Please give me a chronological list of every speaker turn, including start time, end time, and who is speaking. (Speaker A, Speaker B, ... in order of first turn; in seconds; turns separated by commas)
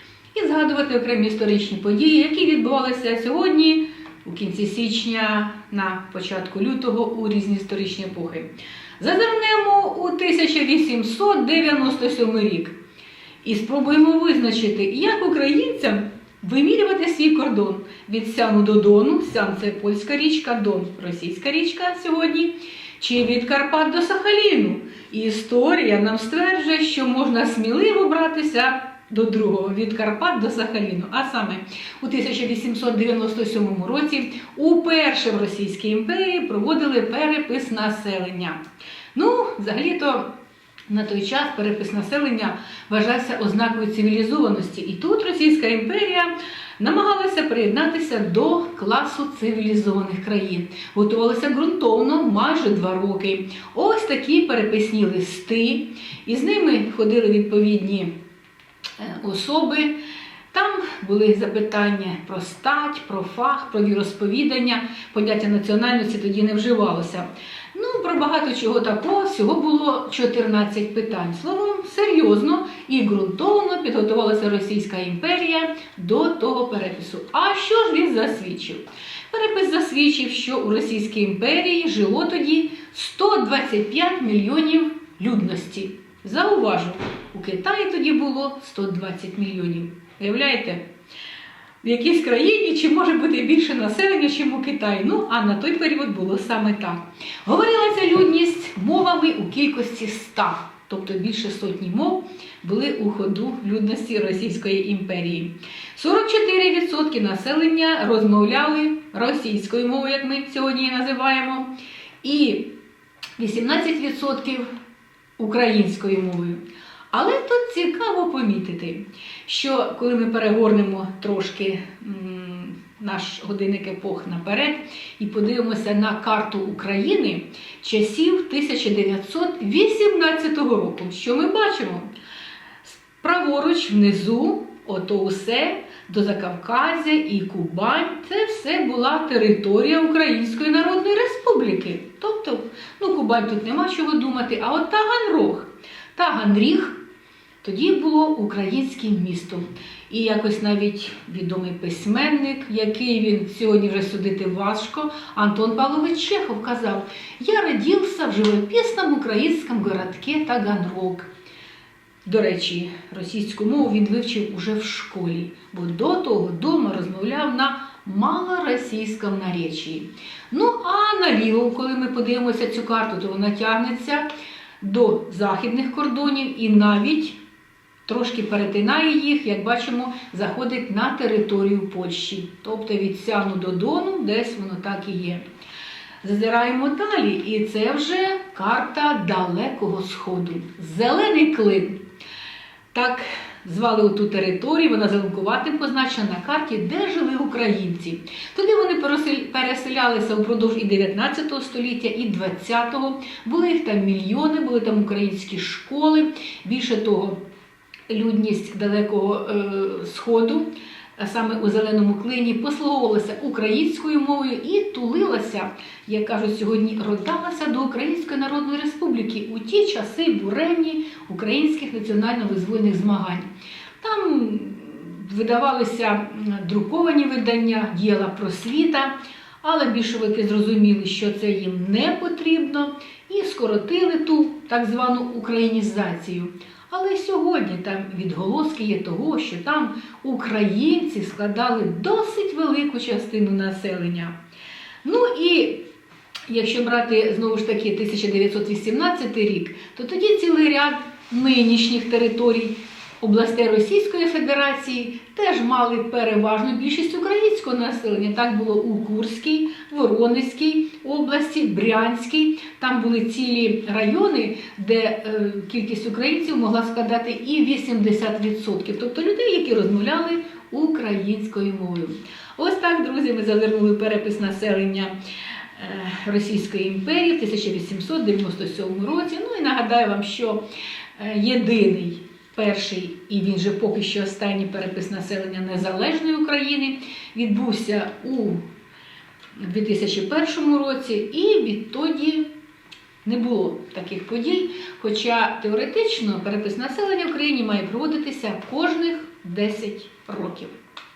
Speaker A: 0.3-12.8, Speaker A: 13.4-38.6, Speaker A: 39.1-40.3, Speaker A: 40.9-58.1, Speaker A: 59.0-59.9, Speaker A: 60.5-90.8, Speaker A: 91.8-111.7, Speaker A: 112.2-112.7, Speaker A: 113.4-114.7, Speaker A: 115.4-116.6, Speaker A: 117.1-132.1, Speaker A: 132.8-147.0, Speaker A: 147.6-161.3, Speaker A: 162.2-174.2, Speaker A: 174.8-177.4, Speaker A: 178.1-185.4, Speaker A: 186.2-192.0, Speaker A: 192.9-207.4, Speaker A: 208.1-223.5, Speaker A: 224.0-244.3, Speaker A: 245.0-245.8, Speaker A: 246.5-275.1, Speaker A: 275.8-280.6, Speaker A: 281.1-288.6, Speaker A: 289.6-292.4, Speaker A: 293.2-300.7